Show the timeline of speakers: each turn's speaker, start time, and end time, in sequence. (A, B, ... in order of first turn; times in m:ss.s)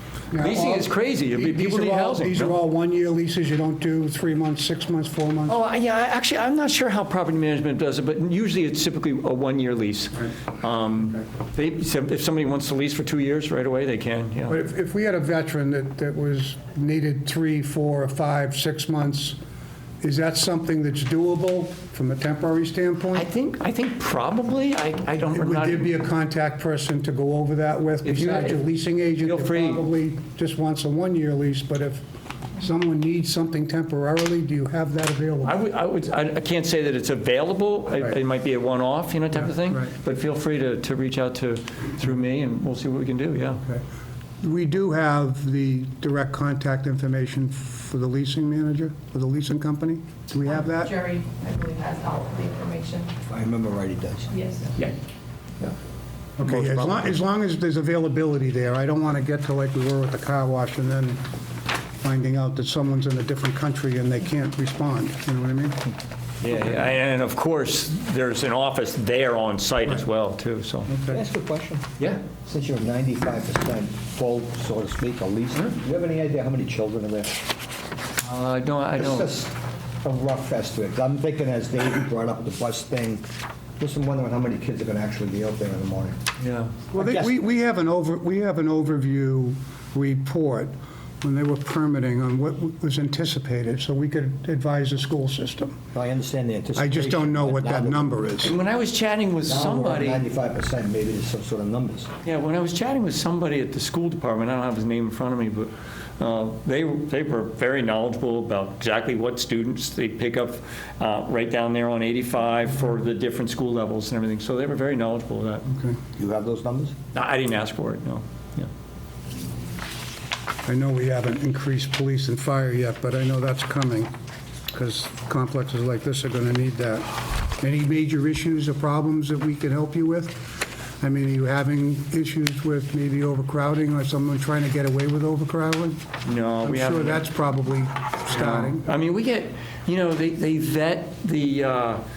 0:00.3-0:05.6 A
0:00.3-0:02.6 B
0:05.5-0:14.6 B
0:14.5-0:19.4 A
0:20.0-0:23.3 A
0:23.2-0:25.9 B
0:25.2-0:32.0 A
0:28.0-0:28.6 B
0:29.2-0:29.8 B
0:32.6-0:35.6 A
0:35.4-0:43.6 B
0:39.7-0:39.9 A
0:44.4-0:51.0 A
0:50.6-0:53.1 C
0:53.3-0:54.3 D
0:54.3-0:54.7 C
0:56.4-1:01.2 A
0:56.4-0:57.0 B
1:02.0-1:05.8 A
1:06.4-1:10.9 B
1:10.9-1:11.2 A
1:11.1-1:17.4 D
1:18.2-1:19.3 B
1:19.0-1:19.5 D
1:20.0-1:23.2 D
1:23.8-1:26.2 D
1:26.4-1:26.7 B
1:26.9-1:35.8 A
1:26.9-1:27.3 D
1:35.9-1:38.3 D
1:36.8-1:38.6 A
1:38.4-1:40.2 B
1:39.5-1:42.1 D
1:42.2-1:55.6 B
1:55.7-1:56.0 A
1:56.2-1:56.9 D
1:57.1-1:58.7 B
2:00.7-2:04.1 A
2:04.7-2:07.1 A
2:07.6-2:16.0 A
2:16.2-2:17.2 B
2:16.6-2:18.8 A
2:18.3-2:22.0 B